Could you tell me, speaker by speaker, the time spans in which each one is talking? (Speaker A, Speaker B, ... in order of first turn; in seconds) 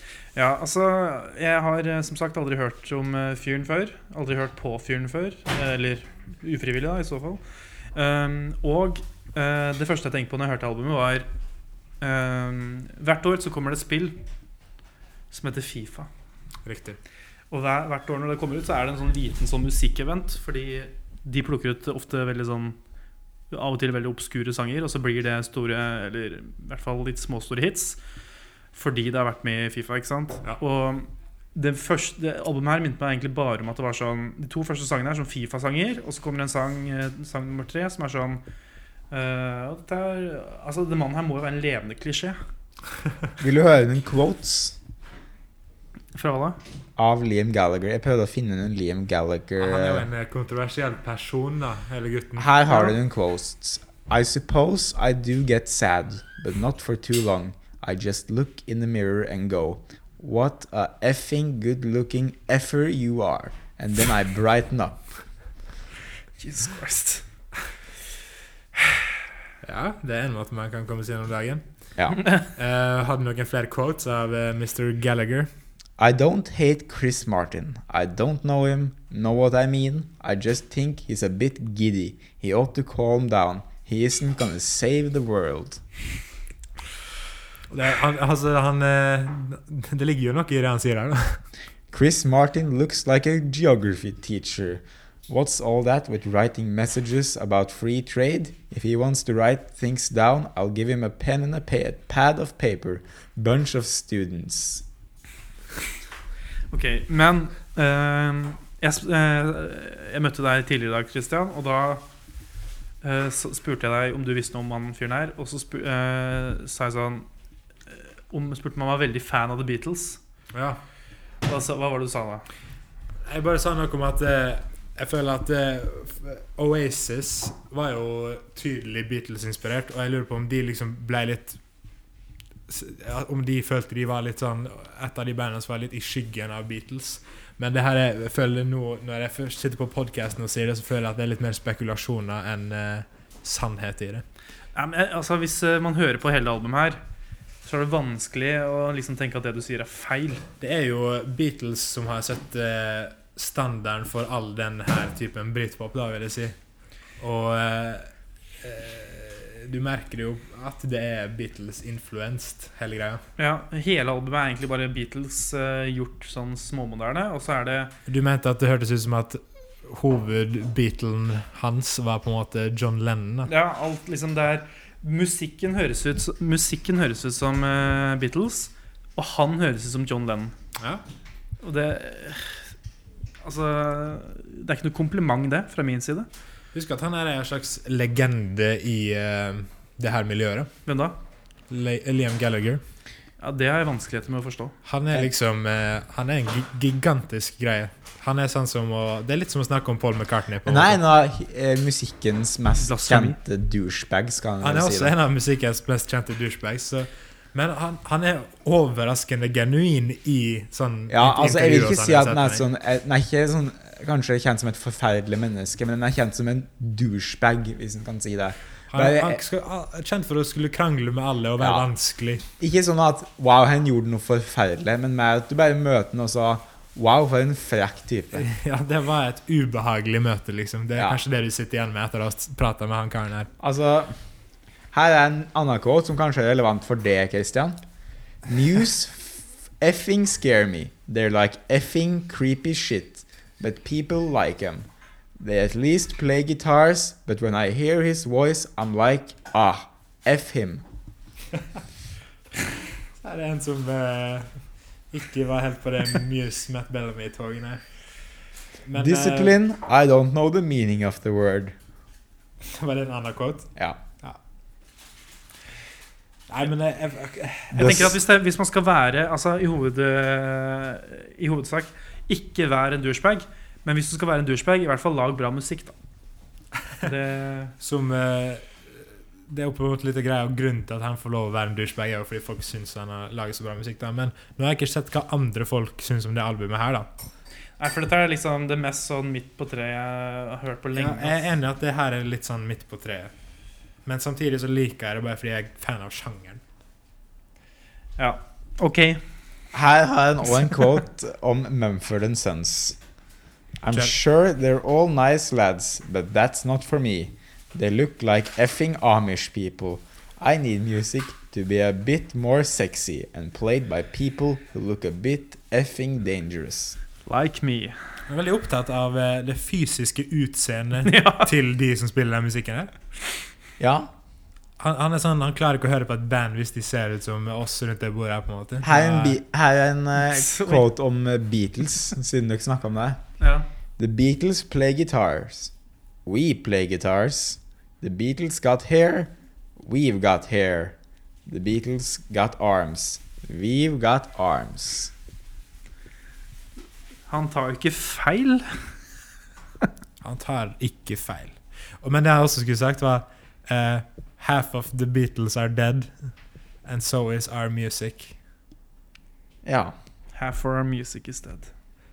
Speaker A: 0.3-7.4, 7.9-11.3, 12.0-14.2, 15.3-16.1, 17.5-22.8, 23.5-28.0, 28.7-38.4, 39.1-42.4, 46.1-46.6, 66.4-67.2, 106.7-112.0, 113.0-117.3, 117.9-120.2, 121.5-122.4, 144.7-147.0, 147.7-150.5, 163.4-167.9, 173.5-180.5, 181.6-182.6, 183.4-186.3, 190.8-191.2, 193.4-194.7, 202.8-203.3, 267.8-275.9, 277.0-277.7, 287.8-291.4, 298.2-299.2, 317.2-318.0, 321.0-321.5, 330.2-330.9, 333.4-333.7, 347.3-348.9, 360.3-361.7
Speaker B: 16.6-17.0, 49.6-52.5, 69.6-71.6, 72.5-75.5, 87.7-91.4, 120.5-120.8, 123.3-131.6, 132.7-144.2, 150.6-156.5, 157.2-158.1, 158.6-163.2, 168.1-173.5, 180.8-181.0, 186.7-190.7, 191.7-192.8, 194.8-201.0, 204.6-212.6, 218.9-222.4, 228.4-233.5, 253.2-254.5, 255.1-257.8, 258.9-259.5, 262.6-264.4, 266.5-268.1, 277.8-278.7, 279.5-287.1, 290.9-293.3, 294.0-296.6, 318.3-322.9, 324.8-329.4, 350.2-356.1, 356.8-358.4
Speaker C: 43.4-44.8, 47.0-50.1, 52.4-65.0, 76.0-85.8, 91.9-104.8, 200.7-205.1, 211.1-219.4, 221.6-221.8, 222.6-228.4, 230.9-231.2, 233.6-234.1, 234.9-237.8, 238.5-244.9, 245.4-250.8, 258.9-261.7, 267.7-268.1, 299.7-303.0, 303.8-317.0, 323.8-324.1, 328.8-333.2, 334.0-335.7, 336.2-345.1, 359.6-359.9